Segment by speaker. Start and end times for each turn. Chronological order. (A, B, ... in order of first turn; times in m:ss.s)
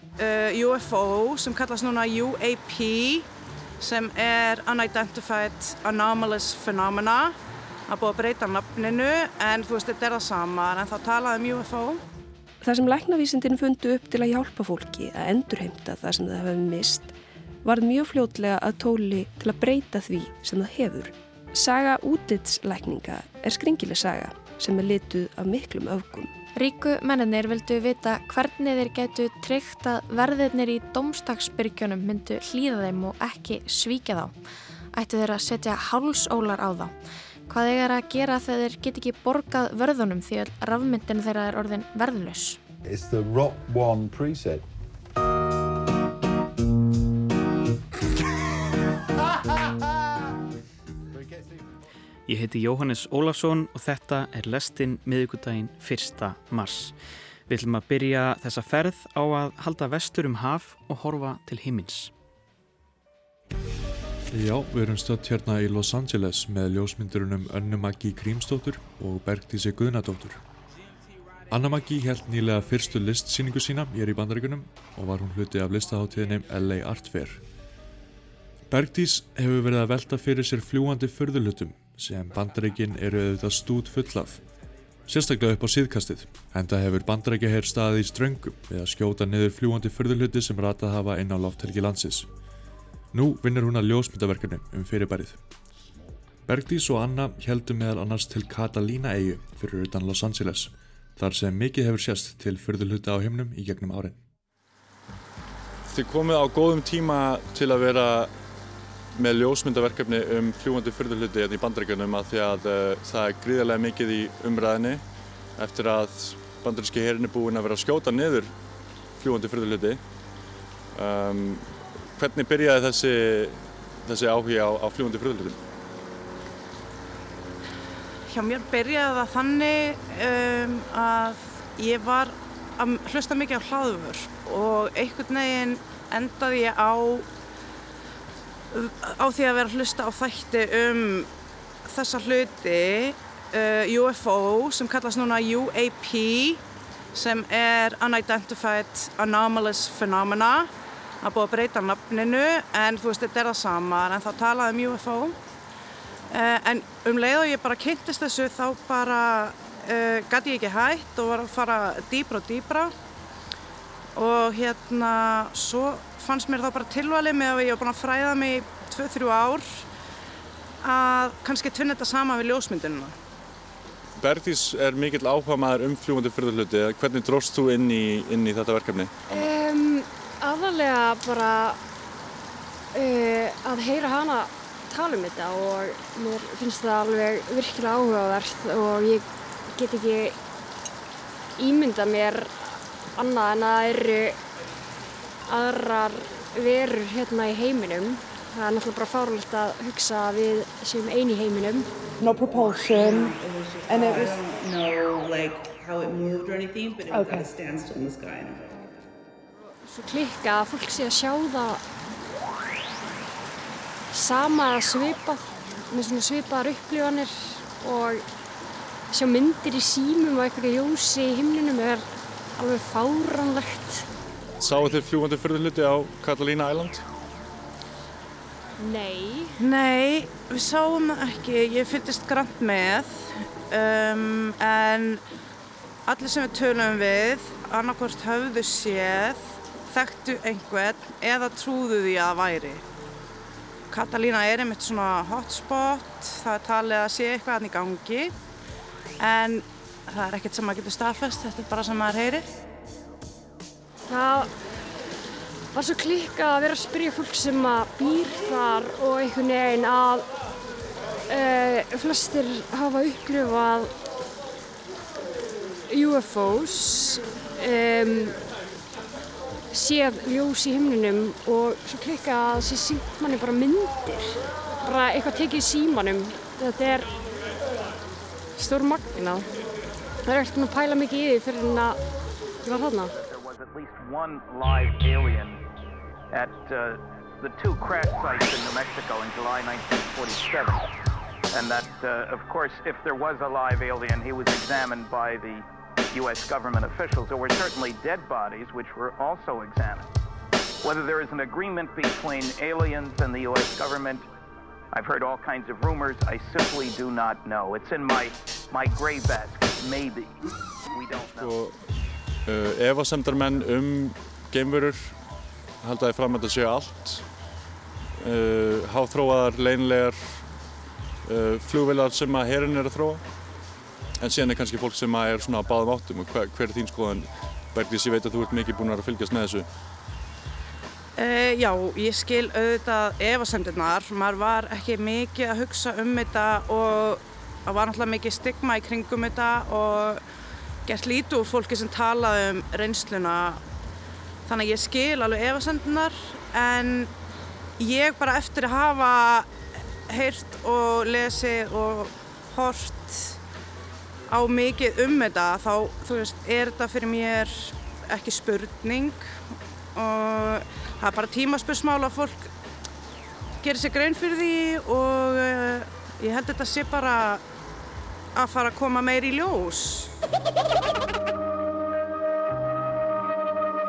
0:00.2-0:03.3 A
0:03.8-0:07.4 A
0:07.9-0:12.0 A
0:12.6-0:26.3 B
0:26.6-0:34.3 C
0:34.9-0:36.9 C
0:37.5-0:42.6 C
0:42.8-0:44.6 D
0:49.5-0:49.8 D
0:51.1-0:51.7 D
0:52.3-0:56.9 E
0:57.5-1:02.1 E
1:04.3-1:10.4 F
1:11.5-1:17.4 F
1:18.7-1:24.4 F
1:25.1-1:32.3 F
1:33.1-1:35.4 F
1:36.5-1:44.2 F
1:45.9-1:48.3 G
1:49.2-1:55.0 G
1:55.6-1:58.5 G
1:59.2-2:00.0 G
2:00.9-2:05.6 G
2:08.3-2:17.3 A
2:18.7-2:21.3 A
2:21.8-2:26.6 A
2:27.1-2:30.7 A
2:31.2-2:35.4 A
2:36.3-2:42.9 A
2:44.2-2:49.8 A
2:50.8-2:53.1 A
2:54.2-2:59.5 G
2:59.3-3:01.8 H
3:02.9-3:10.4 H
3:11.6-3:14.4 H
3:15.5-3:21.9 H
3:22.2-3:23.3 I
3:22.5-3:28.9 J
3:23.9-3:24.3 I
3:27.1-3:27.5 I
3:29.9-3:31.8 H
3:34.1-3:38.2 H
3:39.1-3:42.0 H
3:42.6-3:44.1 H
3:44.6-3:47.0 G
3:48.8-3:49.5 H
3:49.6-3:55.2 A
3:56.1-4:02.8 A
4:03.9-4:08.3 A
4:09.2-4:12.5 A
4:14.1-4:14.5 H
4:15.7-4:20.2 H
4:21.3-4:23.9 H
4:25.9-4:28.3 H
4:29.7-4:37.1 H
4:38.6-4:39.4 H
4:40.2-4:42.0 H
4:42.6-4:43.1 H
4:43.1-4:45.6 K
4:46.3-4:50.9 K
4:51.5-5:00.1 K
5:00.8-5:04.2 K
5:04.9-5:10.3 K
5:10.9-5:11.5 K
5:11.4-5:11.8 G
5:12.4-5:15.2 G
5:15.8-5:17.2 G
5:18.2-5:20.5 G
5:21.2-5:23.2 G
5:24.2-5:29.6 G
5:31.2-5:40.2 A
5:40.8-5:43.6 A
5:44.4-5:47.1 A
5:47.8-5:49.5 A
5:50.1-5:53.4 A
5:54.3-5:59.3 A
5:59.9-6:02.5 A
6:03.6-6:07.4 A
6:08.4-6:10.1 A